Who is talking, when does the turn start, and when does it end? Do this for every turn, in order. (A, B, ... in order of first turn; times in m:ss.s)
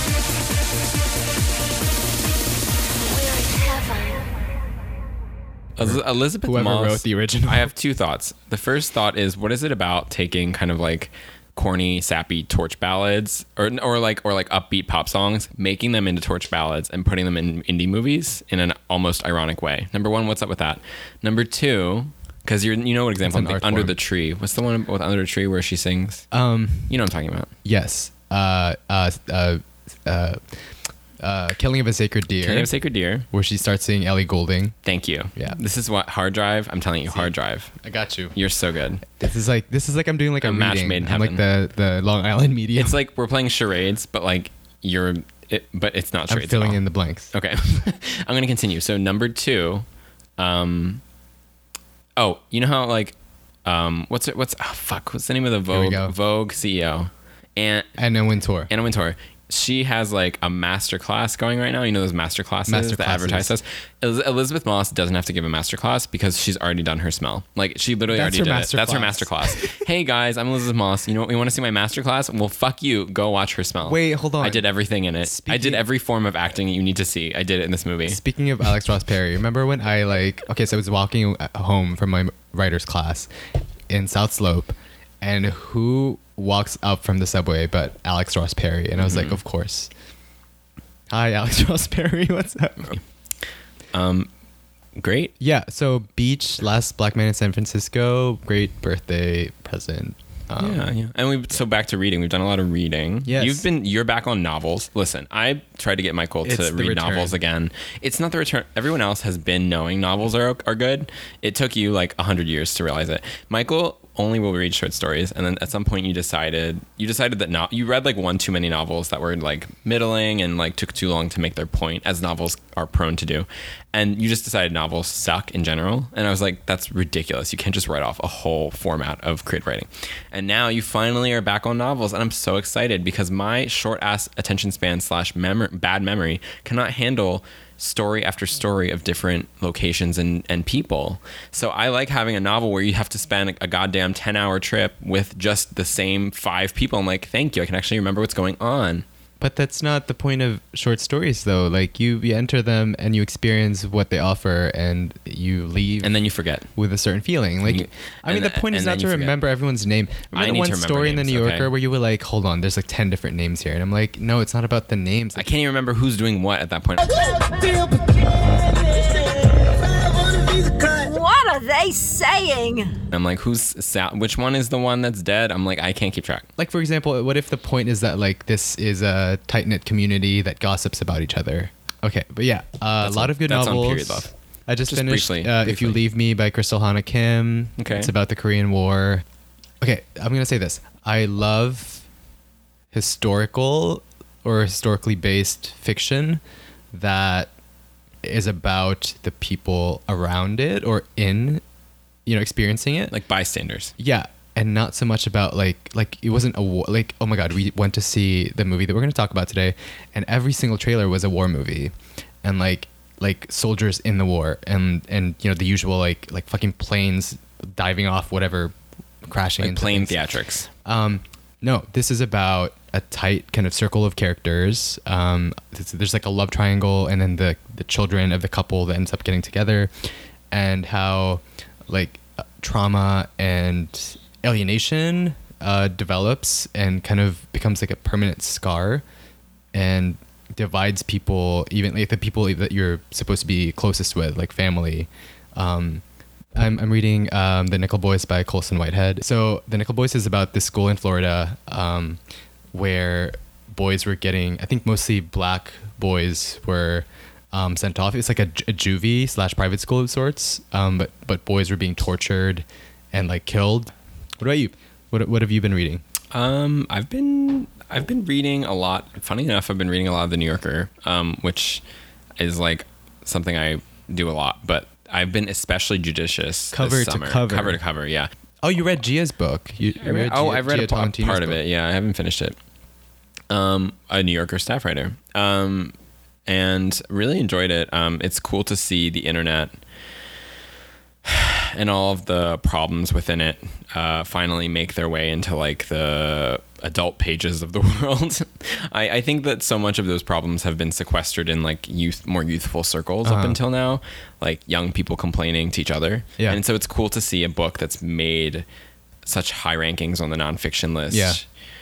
0:05.8-0:26.2 A
0:05.8-0:07.7 B
0:23.2-0:23.9 B
0:26.3-0:27.0 B
0:26.9-0:27.5 A
0:27.6-0:30.6 B
0:31.2-0:32.7 B
0:32.4-0:33.2 A
0:33.3-0:34.8 B
0:34.8-0:37.7 A
0:37.8-0:38.3 B
0:38.3-0:39.0 A
0:39.1-0:42.9 B
0:40.4-0:41.4 A
0:42.8-0:46.8 A
0:46.3-0:47.3 B
0:47.3-0:49.8 A
0:50.4-0:51.0 A
0:52.2-0:57.9 A
0:55.7-0:56.1 B
0:58.0-0:58.7 B
0:58.7-1:18.2 A
1:02.7-1:03.5 B
1:08.1-1:09.8 B
1:13.8-1:14.6 B
1:15.2-1:15.8 B
1:18.1-1:23.3 B
1:23.9-1:29.9 B
1:29.0-1:29.4 A
1:31.1-1:33.0 B
1:33.9-1:34.3 A
1:35.0-1:35.3 A
1:35.4-1:40.8 B
1:40.6-2:29.0 A
1:43.2-1:43.6 B
1:46.4-1:47.4 B
2:29.4-2:36.1 B
2:36.0-2:36.7 A
2:36.8-2:45.4 B
2:37.6-2:39.4 A
2:40.3-2:41.7 A
2:45.4-2:47.4 A
2:50.8-2:52.9 C
2:53.1-2:56.4 A
2:56.6-3:09.2 B
3:03.0-3:04.3 A
3:04.9-3:06.0 A
3:07.8-3:08.1 A
3:09.8-3:12.0 B
3:12.9-3:17.5 B
3:18.2-3:21.6 B
3:22.2-3:23.1 B
3:23.1-3:23.9 A
3:24.0-3:40.2 B
3:39.6-3:40.7 A
3:40.8-3:49.9 B
3:50.5-3:59.0 B
3:59.7-4:06.0 B
4:06.5-4:12.2 B
4:12.7-4:26.0 B
4:26.3-4:31.8 A
4:32.4-4:38.3 A
4:36.7-4:37.8 B
4:38.6-4:41.6 B
4:40.0-4:42.6 A
4:43.5-4:45.9 A
4:46.4-4:49.7 A
4:51.2-5:08.6 A
5:03.2-5:03.6 B
5:09.2-5:11.4 A
5:11.1-5:11.4 B